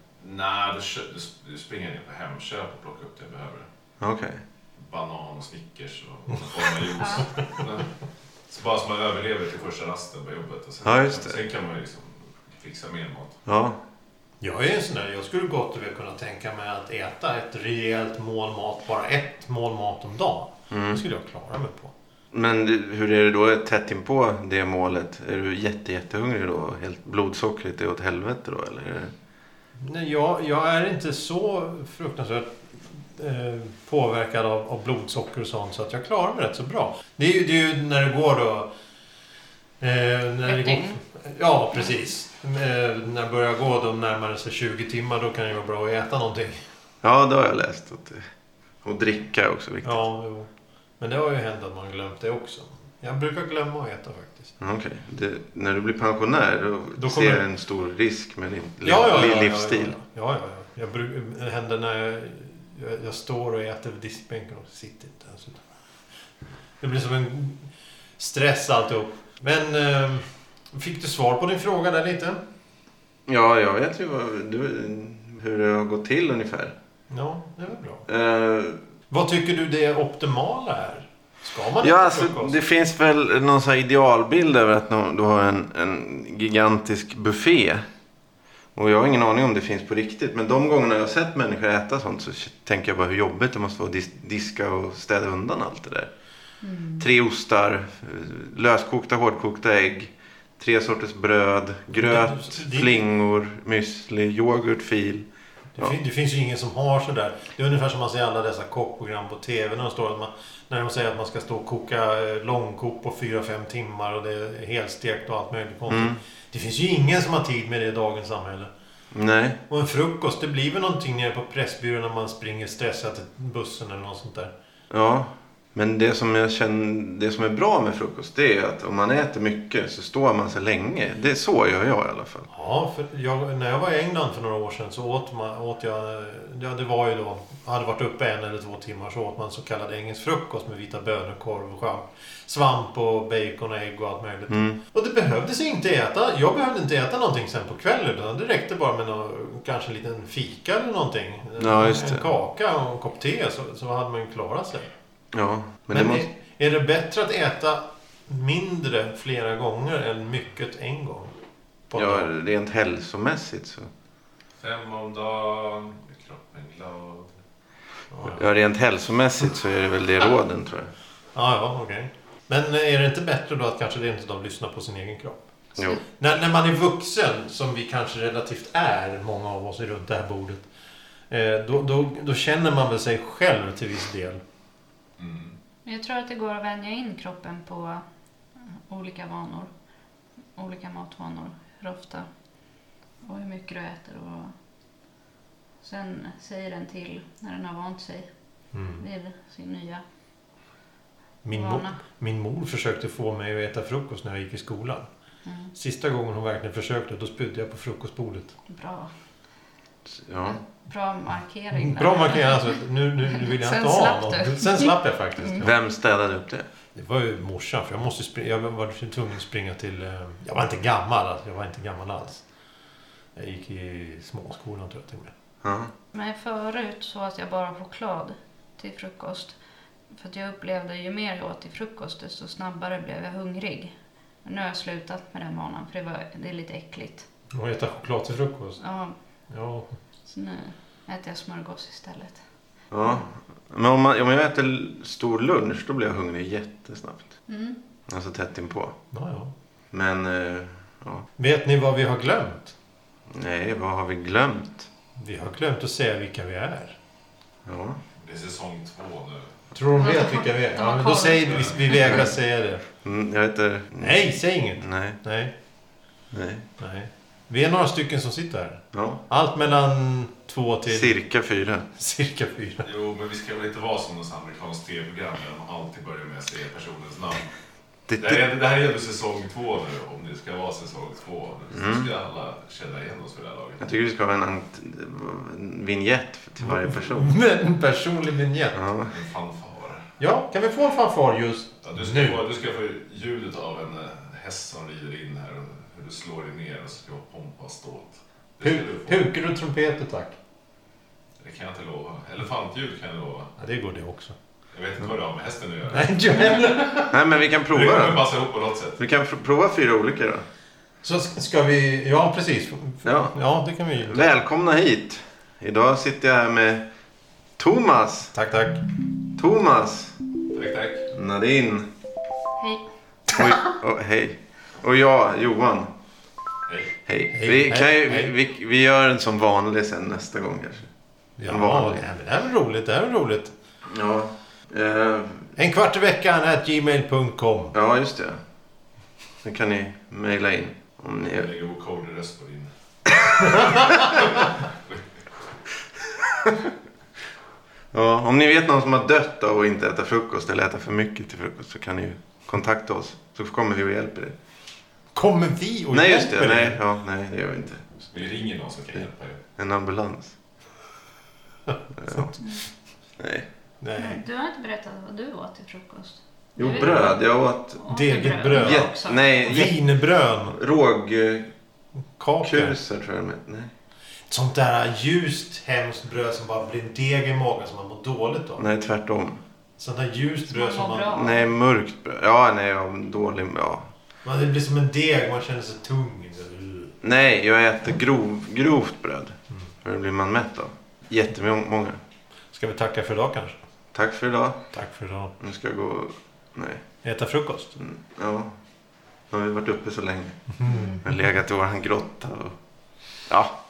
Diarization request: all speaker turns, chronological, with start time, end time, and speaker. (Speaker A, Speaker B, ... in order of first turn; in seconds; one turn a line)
Speaker A: 0.2-3.6
Speaker B: 4.0-4.4
Speaker A: 4.8-7.9
Speaker A: 8.5-13.4
Speaker B: 10.8-11.4
Speaker B: 13.4-13.8
Speaker C: 14.4-21.9
Speaker B: 20.7-21.0
Speaker B: 22.3-29.1
Speaker C: 29.8-38.7
Speaker C: 39.8-46.6
Speaker D: 40.5-41.0
Speaker B: 47.0-48.2
Speaker B: 48.8-50.0
Speaker C: 49.8-54.5
Speaker B: 54.6-59.9
Speaker C: 57.0-57.4
Speaker C: 58.8-65.6
Speaker C: 66.8-72.4
Speaker B: 73.3-76.7
Speaker C: 77.1-78.0
Speaker B: 78.1-78.8
Speaker C: 79.1-82.6
Speaker B: 81.8-87.8
Speaker B: 88.7-96.1
Speaker D: 96.6-97.0
Speaker B: 97.0-105.3
Speaker C: 101.9-103.0
Speaker C: 105.8-118.7
Speaker B: 115.9-116.2
Speaker B: 119.1-119.6
Speaker C: 119.7-124.5
Speaker B: 124.9-132.5
Speaker C: 132.5-154.9
Speaker B: 144.5-144.8
Speaker B: 151.6-152.3
Speaker B: 155.3-156.2
Speaker C: 155.9-161.3
Speaker C: 161.9-162.3
Speaker B: 161.9-163.9
Speaker A: 164.6-167.3
Speaker C: 168.1-168.4
Speaker B: 168.2-170.9
Speaker C: 171.3-175.5
Speaker B: 175.8-176.0
Speaker C: 176.1-180.7
Speaker C: 181.3-184.4
Speaker A: 185.2-185.6
Speaker D: 185.8-188.0
Speaker D: 188.9-189.7
Speaker D: 190.6-192.2
Speaker D: 193.2-194.5
Speaker D: 195.8-198.3
Speaker C: 198.7-199.0
Speaker D: 199.0-200.0
Speaker C: 201.4-205.0
Speaker D: 201.5-202.0
Speaker D: 205.4-205.7
Speaker C: 205.7-208.5
Speaker D: 208.7-209.1
Speaker B: 210.1-210.6
Speaker D: 210.6-212.8
Speaker C: 211.7-215.7
Speaker D: 213.3-215.6
Speaker B: 215.6-216.6
Speaker C: 216.9-222.4
Speaker C: 223.3-225.3
Speaker B: 225.6-225.9
Speaker D: 226.1-229.6
Speaker D: 230.1-233.9
Speaker D: 234.4-237.2
Speaker C: 237.5-238.8
Speaker D: 238.8-239.2
Speaker C: 239.5-239.9
Speaker D: 240.2-242.4
Speaker B: 242.9-247.3
Speaker D: 247.5-247.8
Speaker B: 248.1-248.9
Speaker C: 249.1-249.5
Speaker B: 249.9-251.2
Speaker C: 251.4-252.7
Speaker B: 253.3-254.9
Speaker C: 255.2-257.0
Speaker B: 257.6-258.0
Speaker A: 258.2-259.5
Speaker C: 259.7-262.8
Speaker D: 260.0-262.1
Speaker A: 261.4-261.8
Speaker B: 263.0-264.2
Speaker C: 264.0-265.5
Speaker B: 264.8-265.2
Speaker B: 266.3-266.6
Speaker C: 266.8-271.2
Speaker B: 268.9-269.2
Speaker B: 270.9-271.9
Speaker C: 271.9-272.9
Speaker A: 272.8-277.5
Speaker B: 278.1-278.4
Speaker A: 278.2-283.8
Speaker B: 281.7-282.1
Speaker B: 283.8-287.3
Speaker C: 286.6-288.8
Speaker B: 288.7-289.1
Speaker A: 289.1-290.0
Speaker C: 290.2-292.4
Speaker A: 291.8-299.3
Speaker C: 298.6-300.4
Speaker A: 301.4-303.5
Speaker C: 303.6-304.3
Speaker A: 304.7-306.8
Speaker C: 305.9-307.2
Speaker B: 307.1-308.2
Speaker A: 307.6-309.0
Speaker B: 309.0-310.4
Speaker C: 311.0-314.4
Speaker B: 313.0-313.3
Speaker B: 314.0-316.9
Speaker B: 317.6-318.3
Speaker C: 318.3-318.8
Speaker B: 319.3-320.1
Speaker A: 320.5-321.1
Speaker B: 321.1-321.9
Speaker D: 322.6-322.8
Speaker B: 323.3-325.9
Speaker B: 327.1-330.9
Speaker C: 327.3-328.3
Speaker C: 331.4-333.5
Speaker B: 331.5-332.0
Speaker B: 333.9-335.5
Speaker C: 335.5-337.7
Speaker B: 337.7-338.4
Speaker B: 339.4-341.5
Speaker A: 341.2-342.7
Speaker A: 343.4-345.0
Speaker B: 347.9-354.3
Speaker C: 355.1-356.8
Speaker B: 355.9-358.1
Speaker A: 358.1-359.4
Speaker B: 359.6-360.3
Speaker C: 361.7-362.4
Speaker B: 362.0-362.3
Speaker D: 362.4-362.7
Speaker B: 363.2-363.4
Speaker C: 363.8-364.2
Speaker D: 363.9-369.7
Speaker B: 366.6-367.8
Speaker C: 367.9-370.6
Speaker B: 368.5-369.8
Speaker B: 370.5-371.5
Speaker C: 372.2-372.8
Speaker B: 372.4-373.7
Speaker C: 374.3-378.6
Speaker B: 378.6-379.4
Speaker C: 379.8-381.2
Speaker D: 380.5-381.5
Speaker B: 381.1-383.9
Speaker C: 384.2-386.9
Speaker B: 387.0-392.0
Speaker C: 392.5-393.6
Speaker B: 393.9-394.6
Speaker C: 394.7-395.3
Speaker B: 395.4-396.8
Speaker C: 397.0-397.8
Speaker B: 397.8-398.5
Speaker B: 399.3-400.4
Speaker C: 400.6-401.0
Speaker D: 400.6-401.0
Speaker B: 401.0-402.6
Speaker B: 403.3-403.5